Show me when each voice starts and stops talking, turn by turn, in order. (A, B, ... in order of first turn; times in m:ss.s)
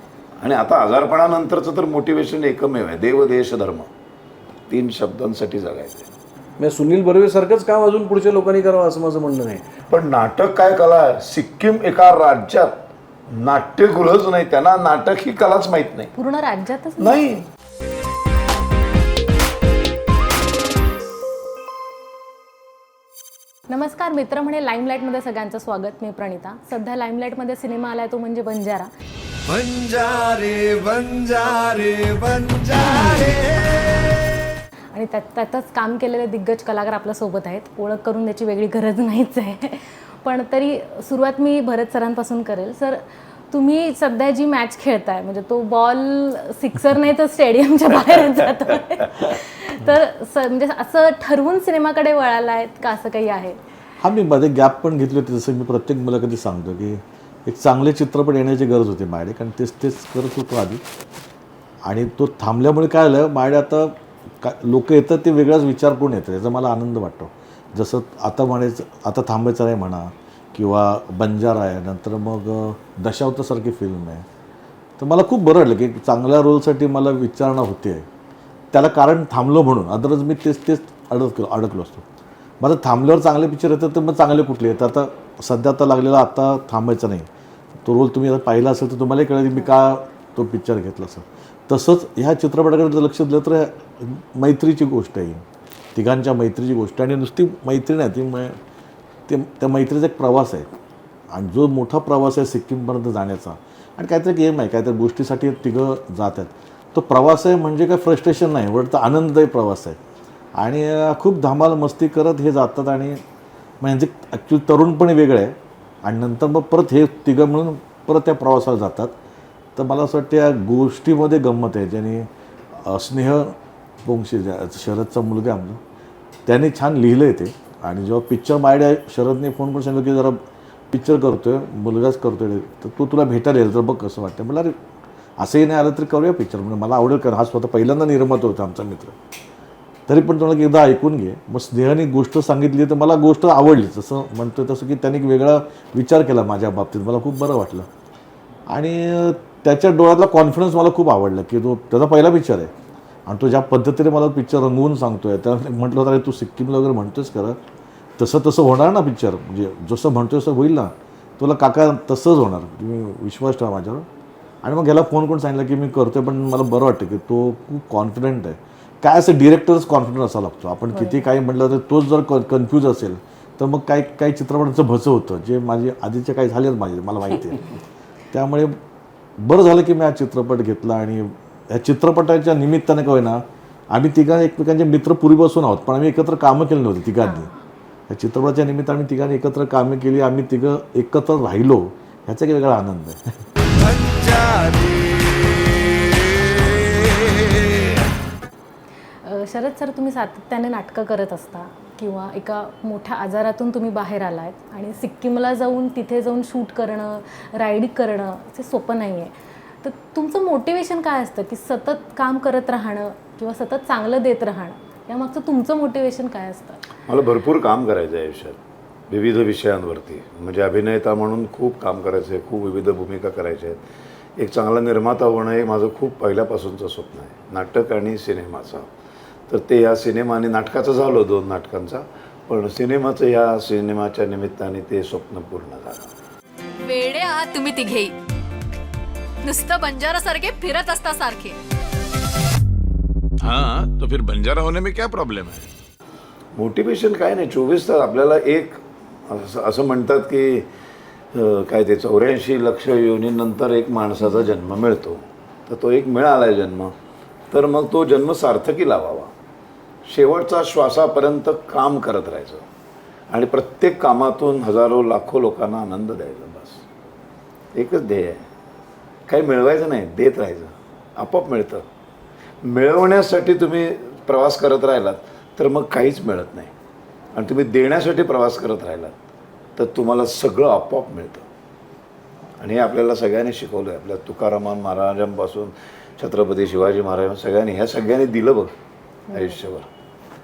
0:00.4-0:03.9 A
0:04.7-0:06.1 A
0:06.6-0:09.6 B
0:09.9-0:16.1 A
0:16.2-0:17.2 C
0:17.0-0:17.4 A
0:23.7-0:28.9 C
0:29.4-0:34.5 D
0:34.9-0:53.6 C
0:54.0-1:00.8 E
1:01.8-1:14.2 E
1:15.0-1:18.1 E
1:18.7-1:22.0 E
1:22.6-1:27.3 E
1:27.8-1:35.4 E
1:35.9-1:38.6 E
1:39.3-1:40.7 E
1:41.3-1:50.0 E
1:50.6-1:53.2 E
1:53.8-1:59.1 E
1:59.8-2:05.8 E
2:06.4-2:10.4 E
2:10.9-2:14.7 E
2:15.4-2:19.1 E
2:20.1-2:27.9 E
2:28.7-2:32.7 E
2:33.3-2:37.6 E
2:38.2-2:44.0 E
2:44.6-2:57.6 E
2:50.9-2:51.2 C
2:58.3-2:58.8 E
2:59.4-3:07.5 E
3:07.2-3:07.5 C
3:08.1-3:13.3 E
3:13.6-3:18.0 D
3:19.2-3:29.3 C
3:29.8-3:36.8 C
3:37.1-3:38.6 A
3:39.1-3:43.8 A
3:44.4-3:48.9 A
3:49.5-3:56.1 A
3:56.8-3:58.1 F
3:59.4-4:01.6 F
4:03.4-4:05.7 A
4:06.5-4:10.7 A
4:11.3-4:16.9 A
4:17.5-4:19.3 A
4:20.0-4:22.6 A
4:23.3-4:26.8 A
4:27.7-4:28.4 A
4:29.3-4:31.8 A
4:32.6-4:36.7 A
4:37.3-4:39.2 A
4:39.8-4:41.4 A
4:42.6-4:48.7 A
4:49.3-4:49.9 A